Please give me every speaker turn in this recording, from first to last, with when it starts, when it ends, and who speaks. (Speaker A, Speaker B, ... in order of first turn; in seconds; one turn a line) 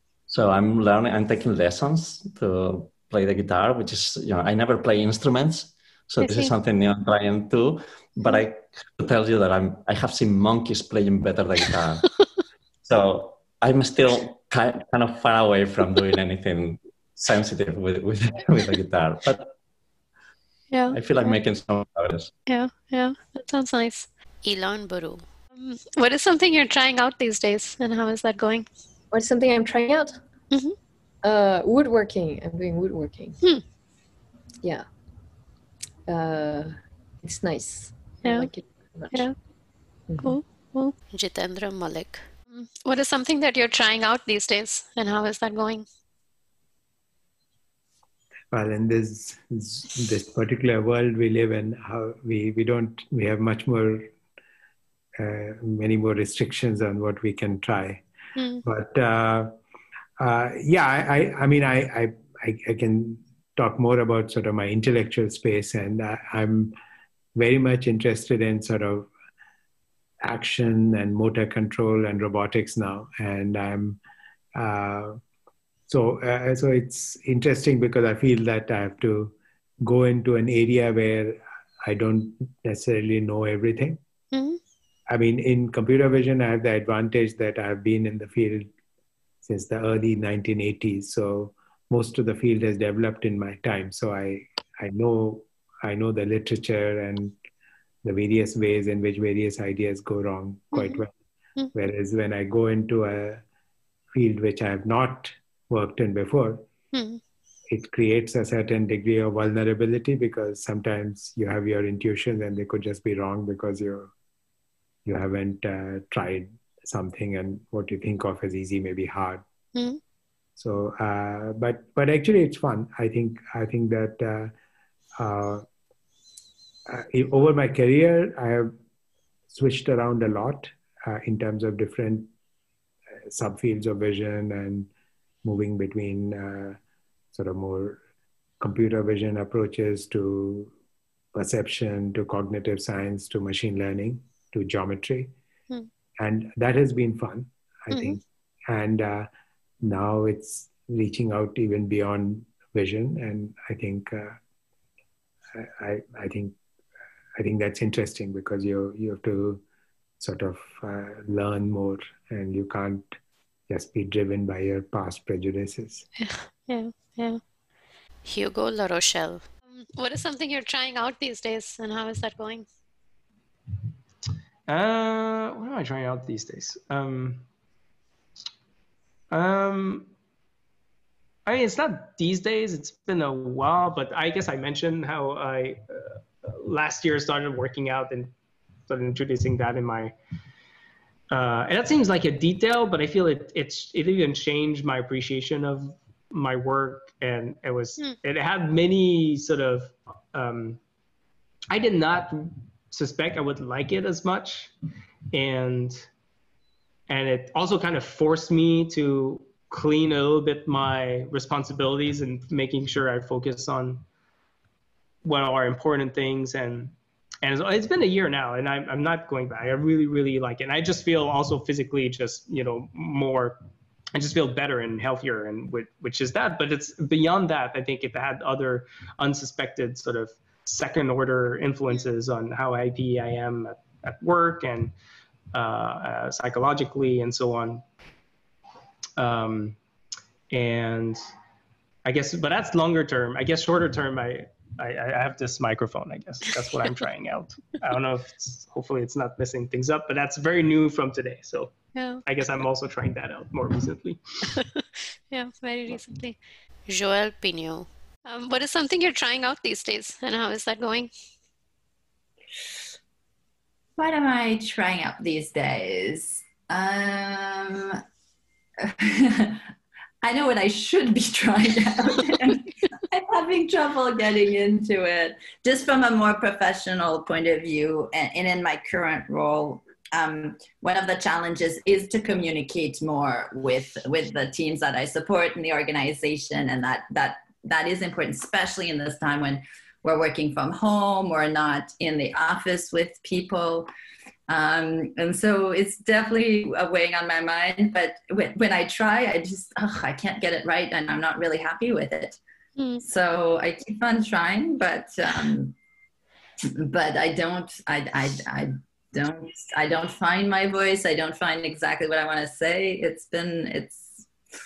Speaker A: 0.3-12.1
Speaker B: 6.2-6.5
Speaker A: 12.8-19.5
Speaker B: 20.7-21.4
Speaker A: 20.9-22.3
Speaker B: 22.5-24.1
Speaker C: 24.4-25.3
Speaker B: 25.5-28.7
Speaker D: 29.1-30.2
Speaker B: 30.5-30.8
Speaker D: 31.2-33.4
Speaker D: 34.6-34.9
Speaker D: 36.1-39.3
Speaker B: 38.2-38.5
Speaker D: 40.1-40.4
Speaker B: 40.2-40.9
Speaker C: 41.1-42.3
Speaker B: 42.5-45.9
Speaker E: 48.5-54.1
Speaker E: 55.2-58.0
Speaker B: 58.4-58.6
Speaker E: 58.6-59.5
Speaker E: 60.2-66.7
Speaker E: 67.3-69.1
Speaker E: 70.2-74.0
Speaker E: 74.5-75.2
Speaker E: 75.9-84.0
Speaker B: 84.3-84.6
Speaker E: 85.1-88.7
Speaker E: 89.4-97.3
Speaker E: 98.0-101.1
Speaker B: 100.7-101.0
Speaker E: 101.7-103.4
Speaker E: 104.1-106.7
Speaker B: 106.9-107.2
Speaker E: 107.7-114.1
Speaker E: 115.0-119.4
Speaker B: 119.7-120.0
Speaker E: 120.5-124.5
Speaker E: 125.2-125.6
Speaker E: 126.9-128.7
Speaker E: 129.5-132.3
Speaker E: 133.3-134.9
Speaker E: 135.4-136.8
Speaker E: 137.3-138.0
Speaker E: 138.6-140.7
Speaker E: 141.3-145.3
Speaker E: 146.2-148.2
Speaker B: 147.9-148.2
Speaker E: 148.7-149.3
Speaker E: 149.8-154.4
Speaker E: 155.5-156.6
Speaker E: 157.4-159.6
Speaker E: 160.2-163.1
Speaker E: 163.7-166.1
Speaker B: 166.2-167.4
Speaker C: 168.2-169.5
Speaker B: 169.7-172.7
Speaker F: 174.7-177.4
Speaker F: 179.3-180.1
Speaker F: 181.4-188.3
Speaker F: 188.9-190.1
Speaker F: 191.3-200.8
Speaker F: 201.7-204.7
Speaker F: 205.3-206.1
Speaker F: 207.1-214.0
Speaker F: 215.2-223.6
Speaker F: 224.1-234.9
Speaker F: 235.5-237.8
Speaker F: 239.2-239.8
Speaker F: 240.5-241.2
Speaker F: 242.0-254.2
Speaker B: 251.9-252.2
Speaker B: 255.3-256.4
Speaker C: 256.9-257.9
Speaker B: 258.2-261.1
Speaker G: 264.0-268.0
Speaker G: 268.8-269.6
Speaker G: 270.2-293.9
Speaker G: 294.5-302.4
Speaker B: 302.8-303.0
Speaker G: 303.0-305.7
Speaker G: 306.8-314.3